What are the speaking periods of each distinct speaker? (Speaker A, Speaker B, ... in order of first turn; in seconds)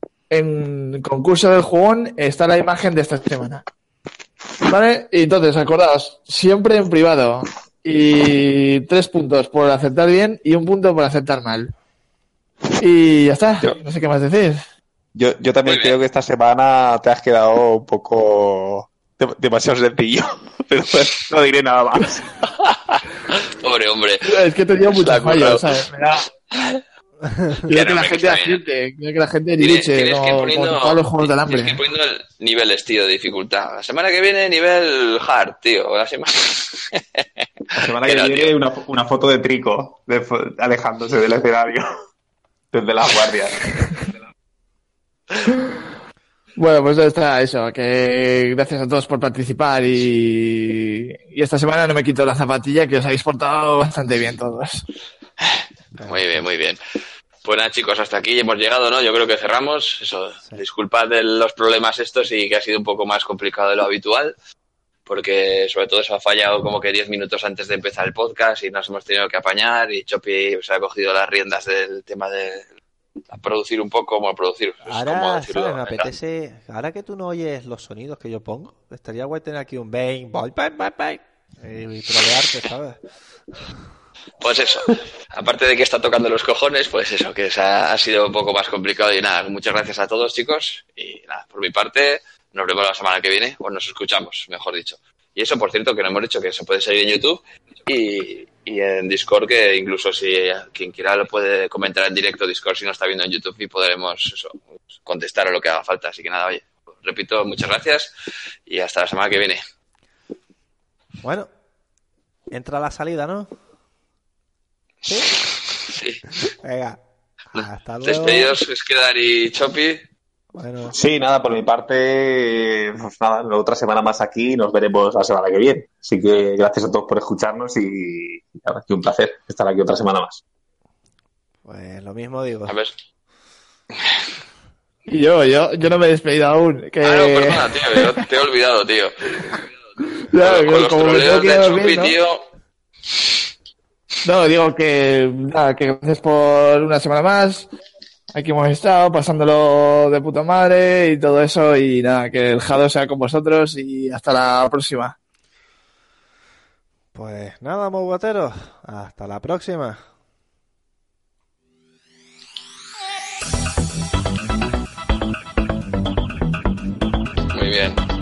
Speaker A: 0.3-3.6, 4.6-11.7, 12.8-14.6, 24.2-26.2, 27.7-31.8, 46.5-54.8, 135.1-138.2, 140.3-142.1, 144.2-147.7, 148.3-155.1
Speaker B: 15.1-22.2, 37.7-41.9, 42.7-43.6, 120.9-130.4
Speaker C: 15.6-15.9, 22.6-26.8, 27.7-28.6, 29.6-38.5, 55.4-56.8, 57.4-64.3, 65.0-72.7, 73.3-76.1, 84.4-108.1, 108.7-109.6, 115.3-116.2, 118.0-120.0, 132.7-132.9, 137.0-139.4, 140.4-142.4, 167.5-168.0
Speaker D: 27.2-27.6, 56.0-56.4, 74.9-83.0, 111.2-111.5, 112.5-113.5, 115.0-115.3, 116.5-117.0, 117.5-118.5, 120.5-121.0, 131.7-132.8, 157.1-160.0